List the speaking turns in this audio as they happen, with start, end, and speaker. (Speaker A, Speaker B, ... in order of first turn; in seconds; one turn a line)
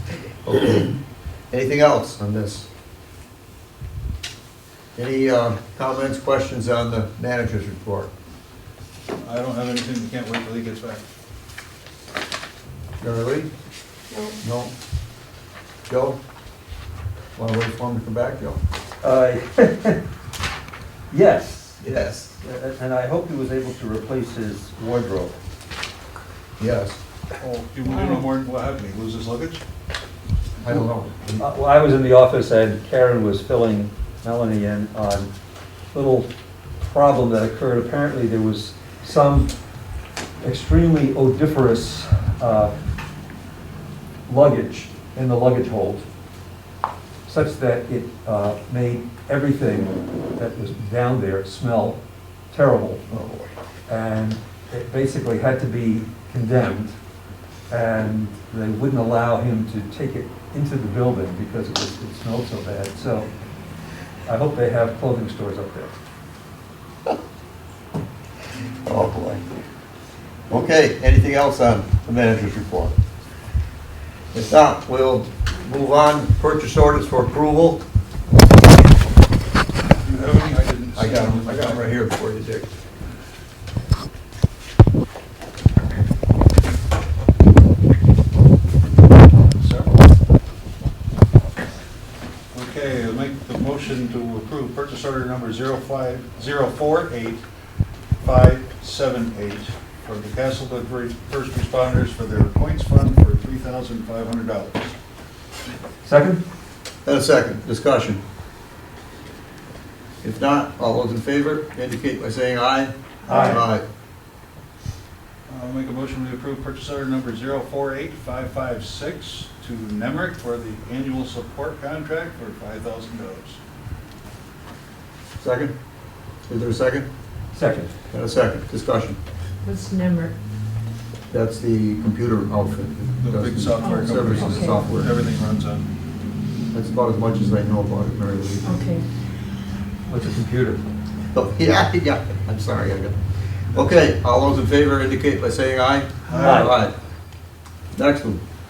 Speaker A: 0.4-0.9
Speaker A: 1.5-2.7
Speaker A: 5.0-8.1
Speaker B: 9.2-11.0
Speaker A: 13.0-13.5
Speaker C: 14.1-14.4
Speaker A: 14.4-14.7
Speaker A: 15.9-16.2
Speaker A: 17.4-18.6
Speaker D: 19.0-20.0
Speaker D: 21.1-25.4
Speaker A: 21.8-22.3
Speaker A: 26.6-27.0
Speaker B: 27.4-29.6
Speaker C: 27.9-28.2
Speaker A: 30.6-31.5
Speaker D: 31.4-35.3
Speaker D: 35.9-39.5
Speaker D: 40.4-42.8
Speaker D: 44.3-46.0
Speaker D: 47.3-52.0
Speaker D: 52.5-53.0
Speaker A: 53.1-53.5
Speaker D: 53.9-57.0
Speaker D: 57.7-63.3
Speaker D: 64.3-66.0
Speaker A: 68.9-69.4
Speaker A: 70.5-72.9
Speaker A: 74.3-77.8
Speaker B: 80.0-82.0
Speaker A: 81.0-82.7
Speaker B: 89.6-90.0
Speaker B: 92.5-97.4
Speaker B: 98.2-105.0
Speaker D: 106.0-106.4
Speaker A: 107.0-108.2
Speaker A: 110.2-113.8
Speaker C: 113.3-113.6
Speaker B: 115.5-123.6
Speaker A: 125.4-125.7
Speaker A: 126.5-127.1
Speaker D: 127.5-127.9
Speaker A: 128.1-129.2
Speaker C: 129.6-130.3
Speaker A: 131.3-135.2
Speaker B: 133.2-135.8
Speaker C: 133.8-134.8
Speaker A: 136.7-138.8
Speaker C: 138.7-139.1
Speaker D: 140.1-141.0
Speaker A: 141.3-143.2
Speaker A: 143.7-146.9
Speaker B: 146.3-146.8
Speaker D: 146.3-146.8
Speaker A: 147.9-148.4